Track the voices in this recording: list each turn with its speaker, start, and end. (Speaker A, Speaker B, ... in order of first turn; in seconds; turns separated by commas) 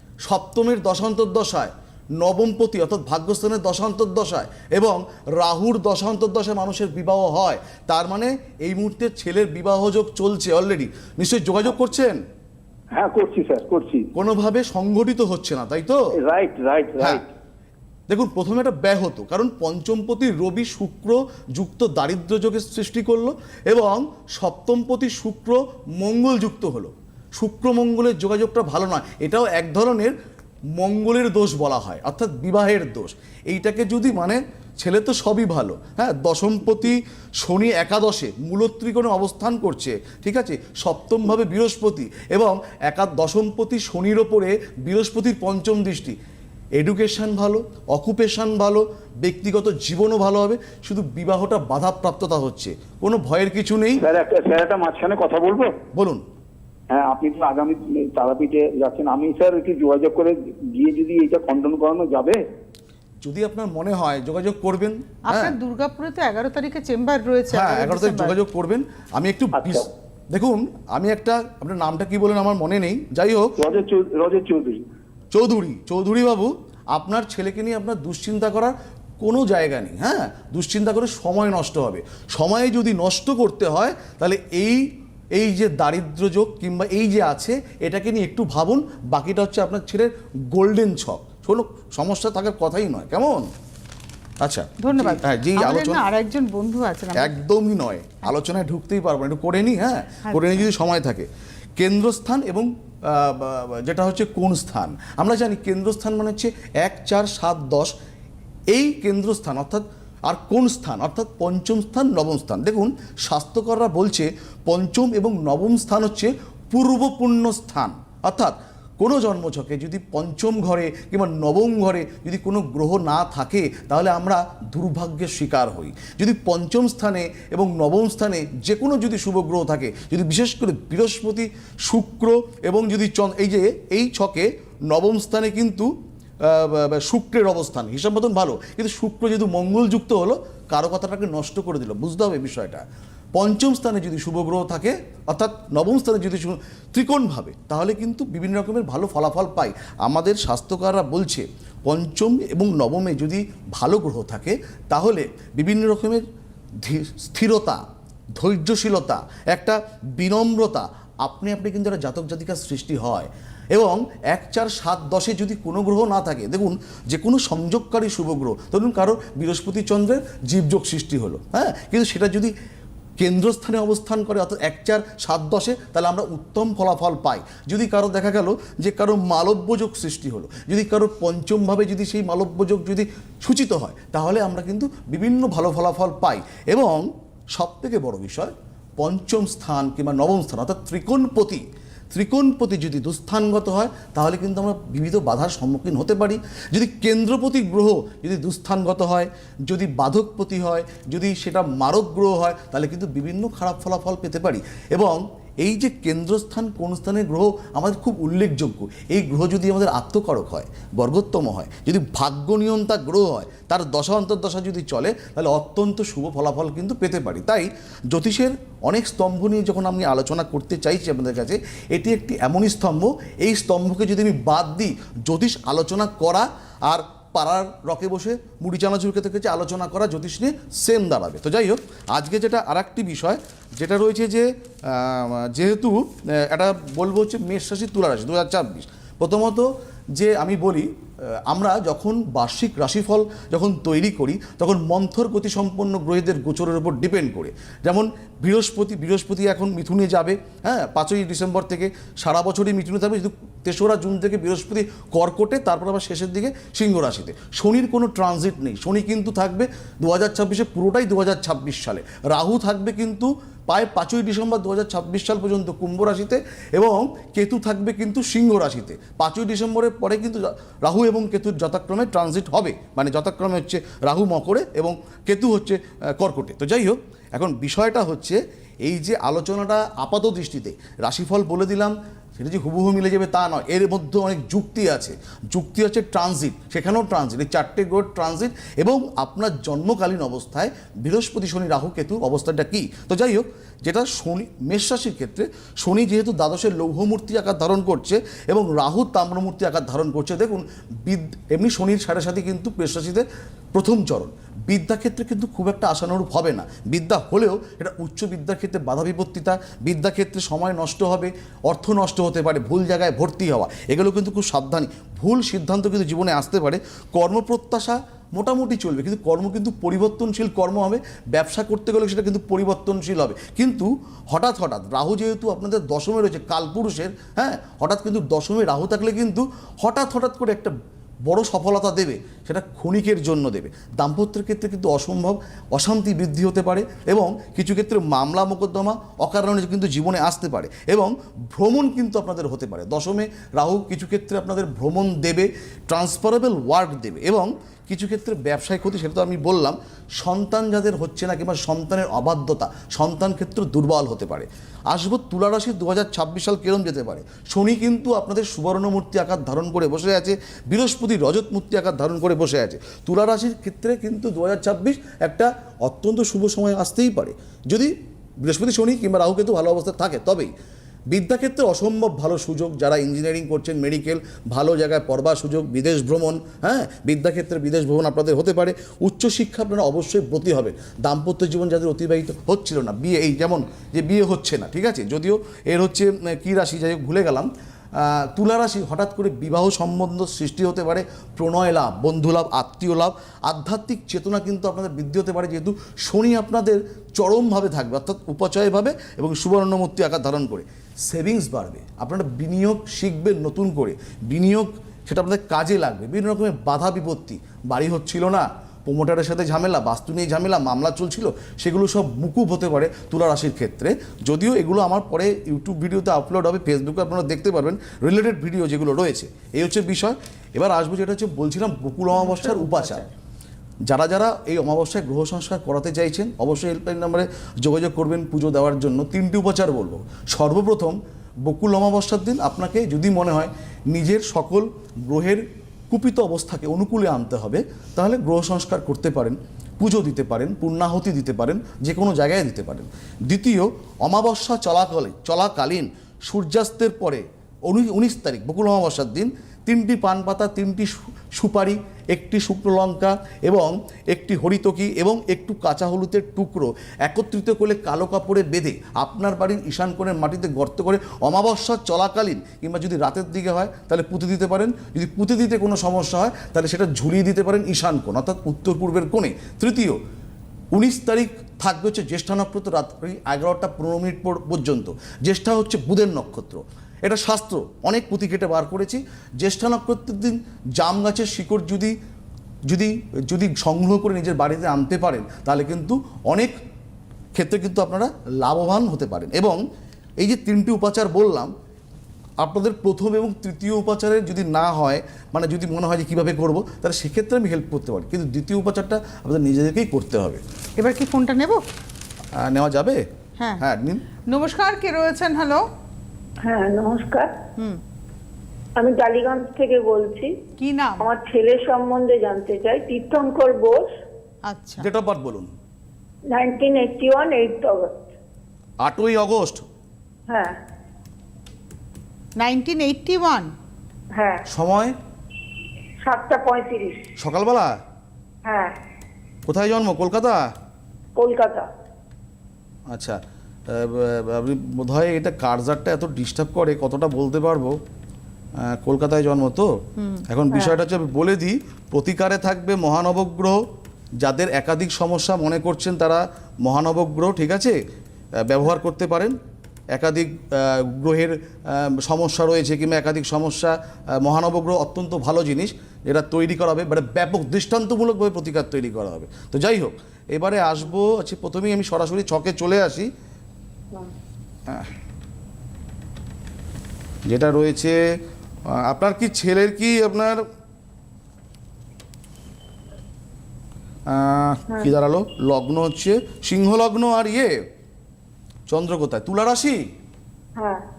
Speaker A: 0.2-12.2, Speaker B: 12.9-14.1, Speaker A: 14.1-16.0, Speaker B: 16.2-17.3, Speaker A: 18.1-30.1, Speaker A: 30.8-46.2, Speaker A: 46.8-54.0, Speaker B: 54.0-55.8, Speaker A: 55.9-56.2, Speaker B: 56.9-62.4, Speaker A: 63.2-65.5, Speaker C: 65.3-68.3, Speaker A: 67.5-73.5, Speaker B: 69.5-69.9, Speaker B: 73.6-74.9, Speaker A: 75.3-93.5, Speaker A: 94.4-96.0, Speaker C: 94.8-97.3, Speaker A: 97.2-101.3, Speaker C: 100.2-100.7, Speaker A: 101.8-107.9, Speaker A: 108.7-135.9, Speaker A: 136.4-142.8, Speaker A: 143.3-156.2, Speaker A: 156.8-157.8, Speaker A: 158.4-172.5, Speaker A: 173.2-240.9, Speaker A: 241.5-330.7, Speaker A: 331.2-370.5, Speaker A: 371.1-423.1, Speaker C: 422.1-423.1, Speaker A: 423.9-470.0, Speaker A: 470.7-481.9, Speaker A: 482.7-486.5, Speaker A: 487.3-489.6, Speaker A: 490.2-491.5, Speaker A: 492.4-500.4, Speaker C: 500.8-501.6, Speaker A: 502.4-503.0, Speaker A: 503.6-504.0, Speaker C: 504.3-505.6, Speaker D: 506.4-507.3, Speaker D: 508.8-510.3, Speaker C: 510.6-511.1, Speaker D: 511.0-513.9, Speaker C: 514.5-514.9, Speaker A: 514.8-515.5, Speaker D: 516.3-518.0, Speaker A: 518.8-519.6, Speaker D: 520.3-520.6, Speaker C: 522.4-523.5, Speaker D: 524.1-524.4, Speaker A: 524.5-524.9, Speaker D: 526.0-527.0, Speaker A: 527.2-527.8, Speaker D: 528.4-528.7, Speaker A: 529.5-530.5, Speaker D: 531.1-531.7, Speaker A: 532.9-537.8, Speaker A: 538.6-539.7, Speaker C: 540.0-540.2, Speaker A: 540.3-543.6, Speaker D: 540.5-540.8, Speaker A: 544.2-547.8, Speaker A: 548.5-549.4, Speaker A: 549.9-563.1, Speaker A: 567.3-568.0, Speaker A: 568.7-570.4, Speaker A: 574.1-577.5, Speaker A: 578.7-579.8, Speaker D: 580.6-580.8